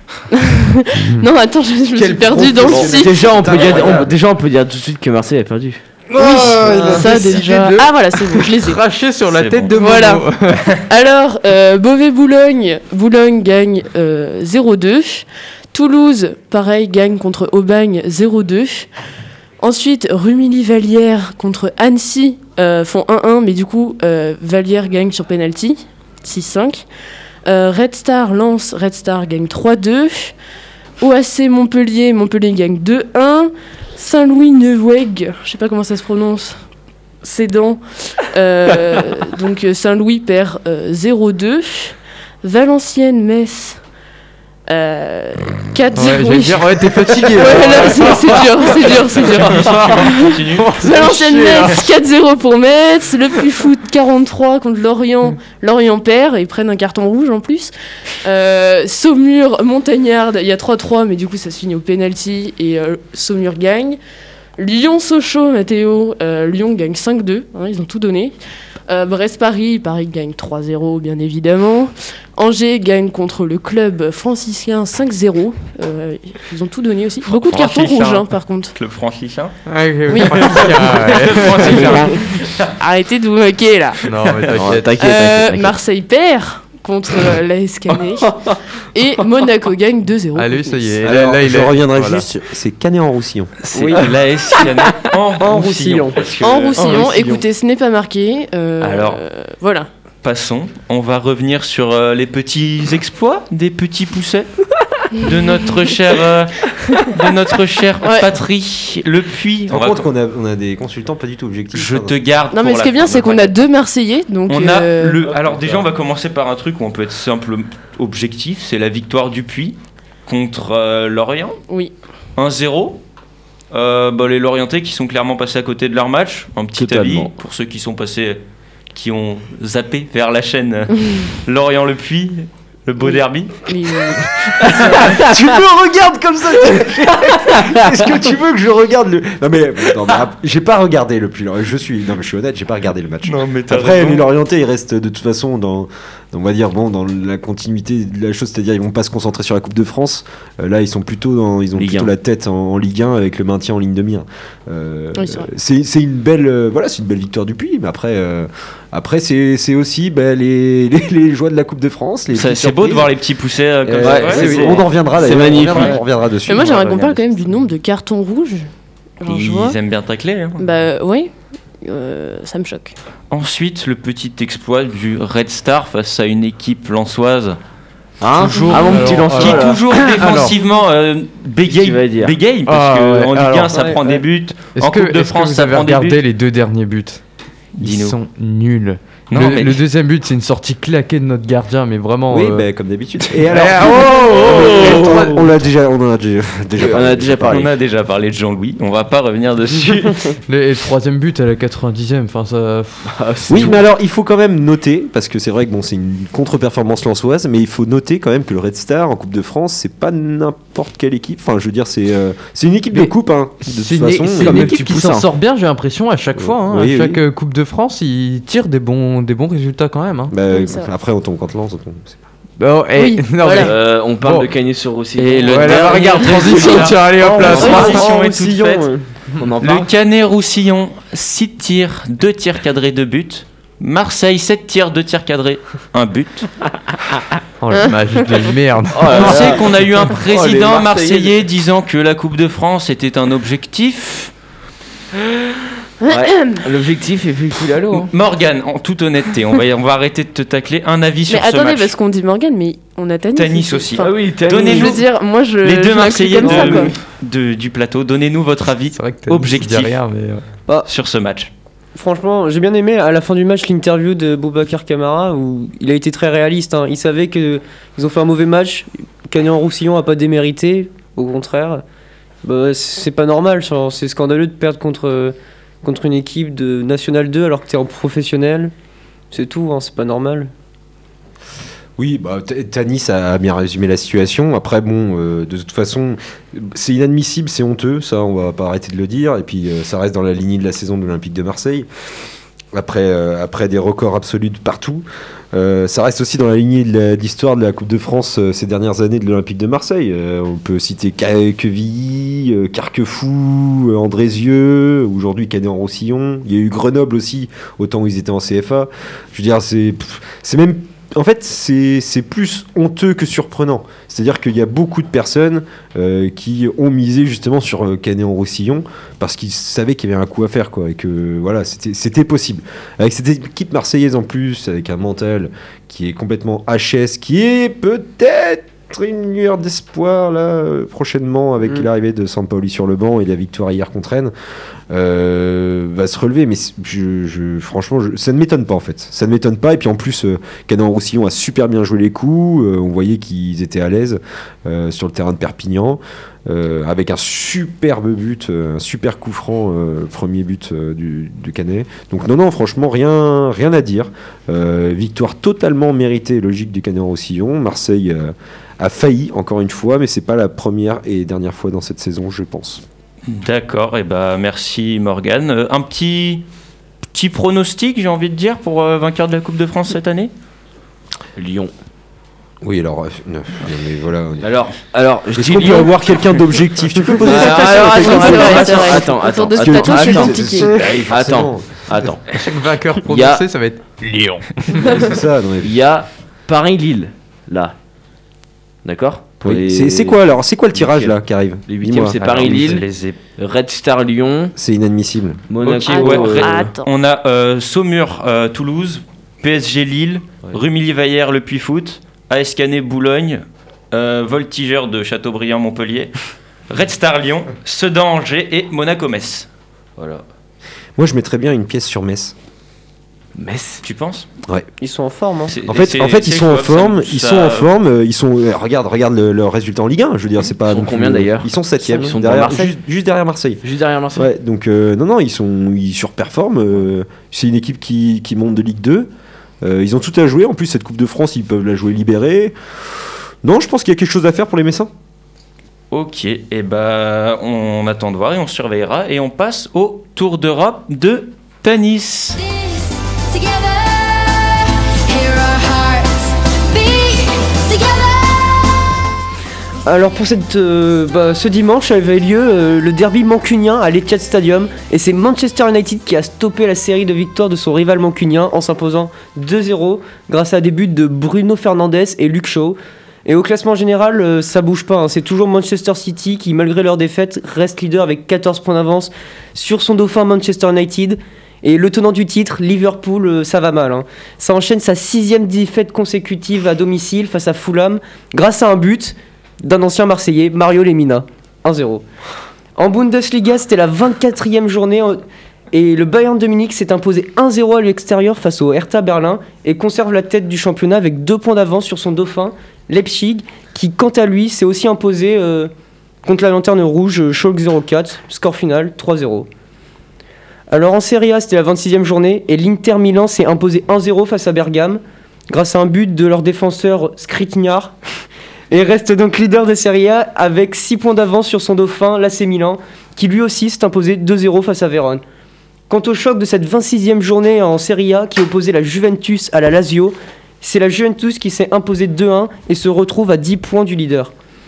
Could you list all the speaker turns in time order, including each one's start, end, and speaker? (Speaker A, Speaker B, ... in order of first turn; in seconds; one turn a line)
Speaker A: 0.3-3.2
Speaker B: 2.0-5.8
Speaker C: 2.6-3.8
Speaker D: 6.1-10.7
Speaker A: 6.2-8.8
Speaker E: 6.6-7.2
Speaker B: 6.7-7.4
Speaker F: 9.3-9.8
Speaker A: 9.8-18.9
Speaker A: 19.6-26.8
Speaker A: 27.4-30.3
Speaker A: 31.0-36.6
Speaker A: 37.2-43.8
Speaker A: 44.7-64.0
Speaker D: 46.0-51.8
Speaker F: 48.9-51.0
Speaker A: 64.6-68.3
Speaker A: 68.9-78.7
Speaker F: 77.2-79.5
Speaker D: 79.7-82.0
Speaker A: 80.1-82.0
Speaker F: 80.2-82.7
Speaker A: 82.6-84.0
Speaker D: 84.1-84.9
Speaker F: 84.1-84.6
Speaker B: 84.5-85.7
Speaker A: 85.0-90.9
Speaker D: 90.3-92.2
Speaker C: 91.0-93.5
Speaker F: 93.6-97.1
Speaker E: 93.7-97.4
Speaker A: 96.4-99.9
Speaker F: 98.8-99.2
Speaker F: 100.2-110.1
Speaker A: 108.0-108.3
Speaker C: 109.7-112.1
Speaker F: 111.7-113.6
Speaker A: 112.5-115.2
Speaker F: 114.5-121.6
Speaker F: 122.3-123.0
Speaker F: 123.7-128.4
Speaker B: 126.8-127.3
Speaker F: 128.9-135.2
Speaker A: 133.0-134.2
Speaker C: 134.7-163.1
Speaker F: 143.2-144.3
Speaker F: 151.8-152.0
Speaker A: 155.2-155.5
Speaker F: 162.3-165.9
Speaker C: 163.8-166.8
Speaker B: 163.9-166.0
Speaker A: 166.4-168.7
Speaker B: 166.5-167.3
Speaker A: 169.2-169.8
Speaker F: 169.2-170.6
Speaker A: 170.6-172.9
Speaker F: 173.3-177.6
Speaker B: 178.2-179.9
Speaker F: 178.4-186.2
Speaker D: 178.6-180.5
Speaker B: 181.7-182.3
Speaker D: 182.7-183.8
Speaker E: 183.7-184.2
Speaker D: 184.7-187.2
Speaker F: 187.8-188.2
Speaker D: 187.8-192.7
Speaker F: 189.3-189.8
Speaker C: 192.3-197.7
Speaker D: 193.4-195.3
Speaker B: 194.1-195.3
Speaker B: 196.8-197.7
Speaker F: 197.5-200.3
Speaker D: 200.5-203.2
Speaker B: 203.1-203.8
Speaker C: 203.5-214.9
Speaker D: 213.7-220.3
Speaker B: 214.0-215.3
Speaker C: 216.4-217.2
Speaker C: 220.3-222.2
Speaker A: 220.5-220.9
Speaker D: 222.6-224.5
Speaker A: 222.9-223.7
Speaker B: 223.6-226.9
Speaker F: 225.2-228.9
Speaker D: 225.3-228.0
Speaker E: 227.2-229.0
Speaker A: 227.6-227.9
Speaker B: 229.4-229.9
Speaker F: 229.6-236.5
Speaker D: 237.6-239.5
Speaker B: 238.9-241.3
Speaker F: 239.1-244.3
Speaker A: 246.0-246.6
Speaker B: 246.1-248.1
Speaker F: 247.9-251.9
Speaker A: 251.3-254.1
Speaker F: 253.3-255.0
Speaker B: 253.9-255.0
Speaker A: 254.7-256.9
Speaker F: 255.6-260.0
Speaker E: 256.3-256.9
Speaker D: 258.9-260.4
Speaker F: 260.9-261.5
Speaker E: 261.9-271.8
Speaker E: 272.4-278.7
Speaker E: 279.3-280.5
Speaker C: 282.0-291.9
Speaker C: 292.7-334.3
Speaker C: 334.9-362.8
Speaker F: 363.3-366.4
Speaker F: 367.1-370.3
Speaker B: 371.4-371.7
Speaker C: 372.6-374.5
Speaker B: 374.4-376.0
Speaker C: 375.3-382.2
Speaker B: 377.2-383.5
Speaker A: 377.4-380.7
Speaker D: 382.3-383.8
Speaker B: 384.1-387.7
Speaker C: 384.8-385.7
Speaker B: 388.8-390.2
Speaker C: 389.4-392.8
Speaker B: 390.7-391.1
Speaker B: 391.7-392.8
Speaker F: 392.2-393.2
Speaker B: 393.4-394.5
Speaker C: 394.5-395.4
Speaker B: 395.5-396.6
Speaker F: 395.6-406.1
Speaker A: 395.9-396.9
Speaker F: 406.7-409.5
Speaker B: 410.0-410.2
Speaker C: 410.9-412.3
Speaker B: 413.4-413.8
Speaker F: 413.8-414.3
Speaker E: 414.8-415.5
Speaker F: 415.5-417.7
Speaker C: 415.6-429.1
Speaker B: 420.6-422.7
Speaker B: 423.6-424.3
Speaker C: 429.6-432.6
Speaker C: 433.4-434.9
Speaker F: 435.9-442.4
Speaker G: 442.3-448.9
Speaker E: 449.9-482.0
Speaker E: 482.8-485.2
Speaker E: 485.7-495.7
Speaker E: 496.2-499.5
Speaker E: 500.7-507.9
Speaker E: 508.7-515.2
Speaker E: 515.9-524.3